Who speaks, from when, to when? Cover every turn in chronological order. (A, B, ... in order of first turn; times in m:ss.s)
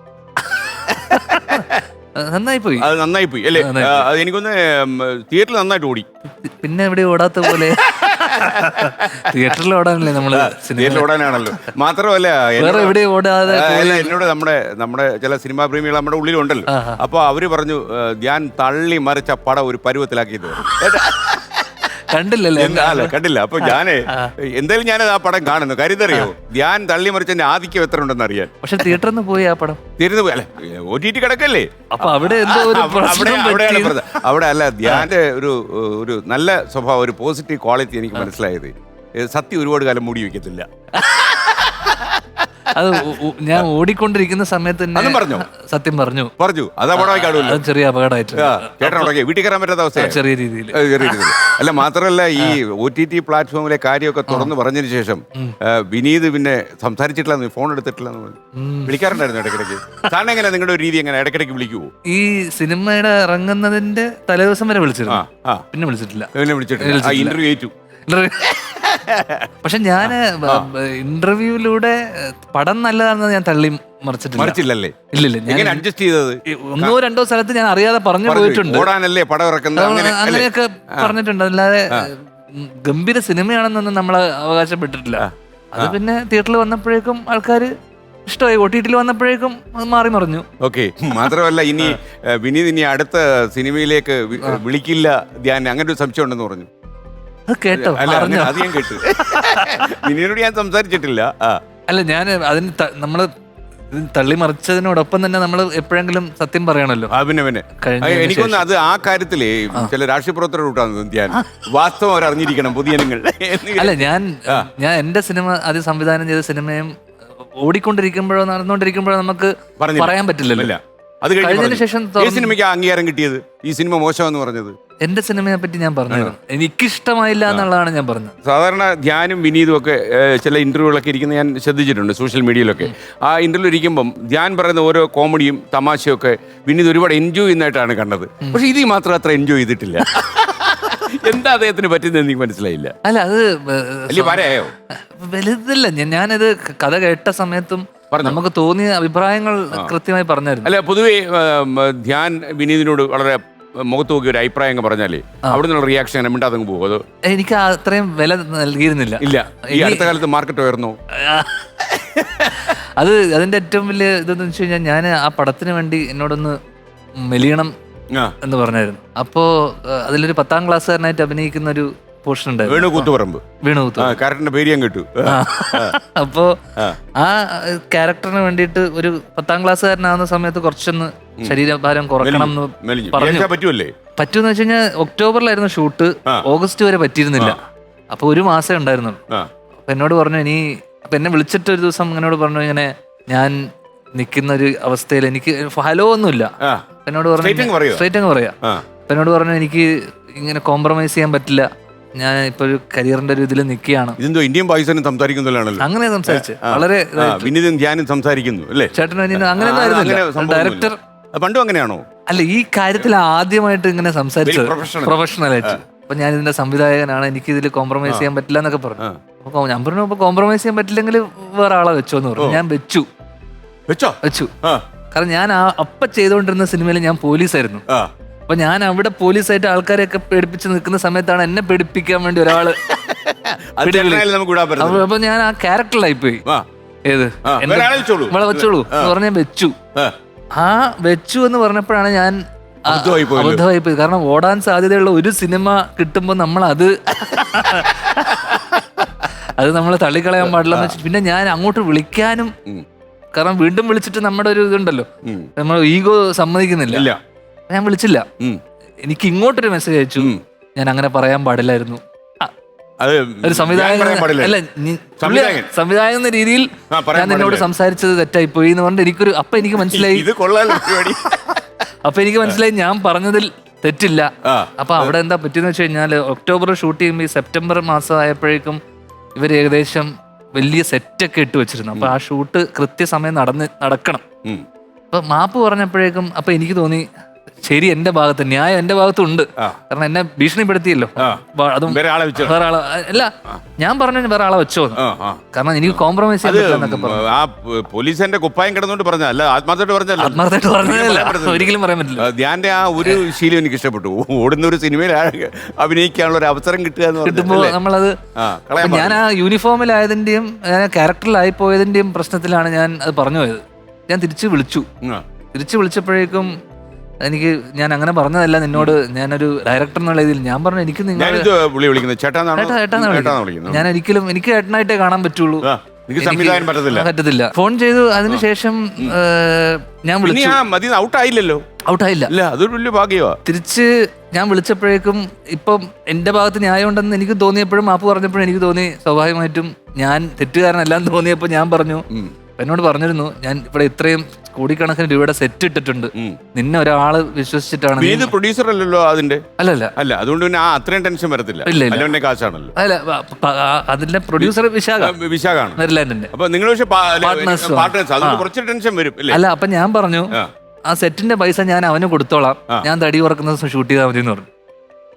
0:00.5-0:01.6 A
0:00.9-0:01.8 B
0:02.2-0:02.9 A
0:02.8-0:06.0 B
0:03.6-0:04.0 A
0:06.4-0:11.7 A
0:07.5-0:09.3 B
0:10.3-0:13.0 B
0:12.6-0:14.1 A
0:13.5-0:21.9 B
0:16.7-0:17.0 A
0:22.0-0:24.3 A
0:22.5-0:28.9 B
0:28.6-0:29.8 A
0:30.0-0:42.4 B
0:31.9-0:34.0 A
0:41.0-0:41.4 A
0:42.7-0:46.3 A
0:43.0-0:43.6 B
0:44.9-0:45.5 B
0:46.4-0:47.6 B
0:47.0-0:49.1 A
0:48.3-0:50.2 B
0:50.0-0:51.6 A
0:50.7-1:01.9 B
0:58.6-0:59.2 A
1:02.1-1:07.4 A
1:05.1-1:05.6 B
1:06.3-1:07.7 B
1:08.1-1:08.8 A
1:08.8-1:09.5 B
1:09.6-1:14.6 A
1:10.0-1:10.7 B
1:14.4-1:17.0 B
1:15.1-1:15.8 A
1:16.5-1:18.9 A
1:18.2-1:21.1 B
1:19.8-1:27.7 A
1:25.2-1:26.0 B
1:28.2-1:30.4 A
1:30.6-1:36.7 B
1:37.5-1:39.8 A
1:37.7-1:41.6 B
1:41.9-1:43.3 A
1:43.9-1:47.1 A
1:47.1-1:54.7 B
1:47.8-1:48.7 A
1:53.8-1:56.9 A
1:57.6-2:00.7 A
1:59.8-2:04.7 B
2:01.4-2:02.5 A
2:05.0-2:08.3 A
2:08.4-2:22.9 B
2:23.0-2:24.4 A
2:24.1-2:24.7 B
2:25.1-2:30.7 A
2:28.1-2:28.4 B
2:30.6-2:37.0 B
2:37.3-2:40.1 A
2:39.2-2:40.9 B
2:41.2-2:46.6 A
2:47.2-2:47.7 A
2:48.4-2:53.1 A
2:52.6-2:53.4 B
2:53.6-2:54.2 A
2:54.0-2:55.9 B
2:55.2-2:56.6 A
2:57.2-3:03.5 A
3:02.2-3:03.9 B
3:04.2-3:07.6 A
3:08.1-3:09.2 A
3:09.9-3:13.5 A
3:14.2-3:16.5 A
3:17.0-3:24.2 A
3:17.4-3:18.0 B
3:24.2-3:32.0 B
3:25.8-3:27.5 A
3:28.9-3:31.0 A
3:32.3-3:43.1 A
3:34.4-3:35.8 B
3:43.9-3:44.8 B
3:44.2-3:44.5 A
3:45.1-3:47.8 A
3:48.5-3:52.8 A
3:52.6-3:55.1 B
3:53.8-3:56.4 A
3:57.1-3:59.7 A
3:57.4-3:59.1 B
4:00.5-4:02.4 A
4:02.9-4:03.6 B
4:02.9-4:08.7 A
4:07.3-4:08.8 B
4:09.4-4:12.5 A
4:10.4-4:11.0 B
4:13.3-4:17.1 A
4:15.2-4:15.5 B
4:16.9-4:17.2 B
4:17.7-4:18.2 A
4:19.0-4:22.5 A
4:23.0-4:24.6 B
4:23.4-4:30.8 A
4:25.2-4:25.7 B
4:26.9-4:27.7 B
4:29.7-4:31.6 B
4:32.0-4:38.8 A
4:34.4-4:35.1 B
4:39.4-4:44.2 A
4:45.1-4:47.1 A
4:47.6-4:55.0 A
4:51.2-4:52.6 B
4:55.0-5:07.8 B
4:55.5-4:57.2 A
5:00.2-5:02.2 A
5:07.2-5:08.2 A
5:08.4-5:09.2 B
5:08.8-5:14.8 A
5:15.5-5:16.5 A
5:17.2-5:21.5 A
5:21.2-5:23.9 B
5:22.6-5:25.6 A
5:25.6-5:27.1 B
5:26.2-5:30.6 A
5:30.2-5:31.6 B
5:31.9-5:32.3 A
5:32.3-5:33.4 B
5:33.4-5:42.0 A
5:42.6-5:48.3 A
5:48.0-5:49.4 B
5:49.6-5:49.9 A
5:50.0-5:52.7 B
5:51.6-5:52.1 A
5:52.8-5:55.1 A
5:54.4-5:55.8 B
5:55.8-5:56.3 A
5:56.3-5:59.4 B
5:57.2-5:58.4 A
5:59.3-6:00.3 A
6:00.9-6:04.5 A